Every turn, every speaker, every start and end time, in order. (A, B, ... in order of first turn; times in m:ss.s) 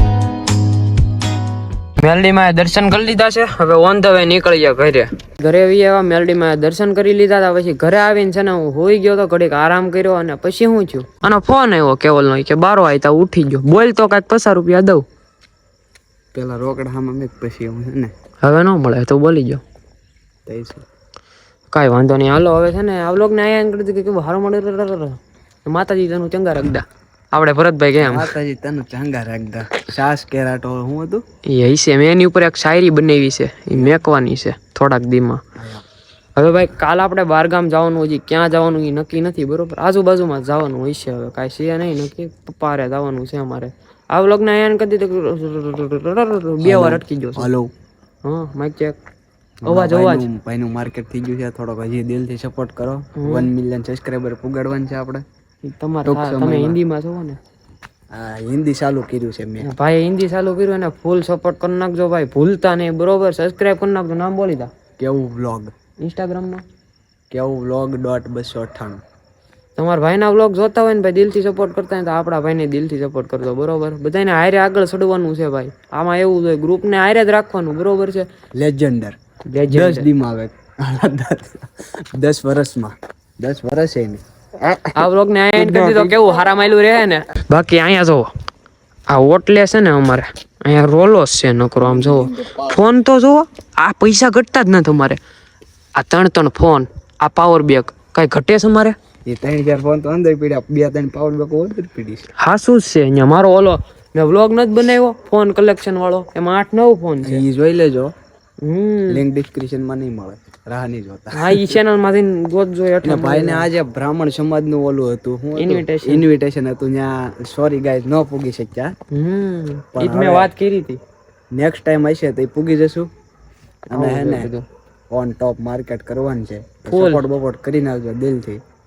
0:02.0-0:15.0 A
0:16.3-0:18.1 B
0:18.4-0:19.6 A
0:20.5-0:20.8 B
0:21.7-0:28.3 A
0:28.0-0:31.2 B
0:31.5-0:35.4 A
0:35.6-0:35.8 B
0:36.4-0:47.5 A
0:46.6-0:47.7 B
0:48.2-0:49.0 A
0:49.6-0:55.2 B
0:49.7-0:50.3 A
0:53.2-0:53.5 A
0:55.6-0:57.4 A
0:56.0-0:56.8 B
0:58.1-0:59.7 B
0:59.6-1:04.7 A
1:05.0-1:05.7 B
1:06.0-1:06.6 A
1:07.3-1:09.0 B
1:09.8-1:18.3 A
1:18.6-1:19.2 B
1:19.5-1:20.1 A
1:19.7-1:21.6 B
1:22.2-1:24.9 B
1:25.0-1:28.3 A
1:25.6-1:26.3 B
1:29.1-1:35.2 A
1:31.8-1:32.5 B
1:36.0-1:39.0 A
1:39.3-1:42.3 B
1:42.4-1:47.4 A
1:47.2-1:48.1 B
1:48.6-1:49.2 A
1:49.1-1:51.8 B
1:51.4-1:53.7 A
1:53.0-1:58.9 B
1:55.6-1:56.2 A
1:59.1-2:01.0 A
2:00.0-2:00.5 B
2:01.5-2:03.1 B
2:03.9-2:04.6 A
2:03.9-2:04.5 B
2:05.1-2:08.6 B
2:06.9-2:07.2 A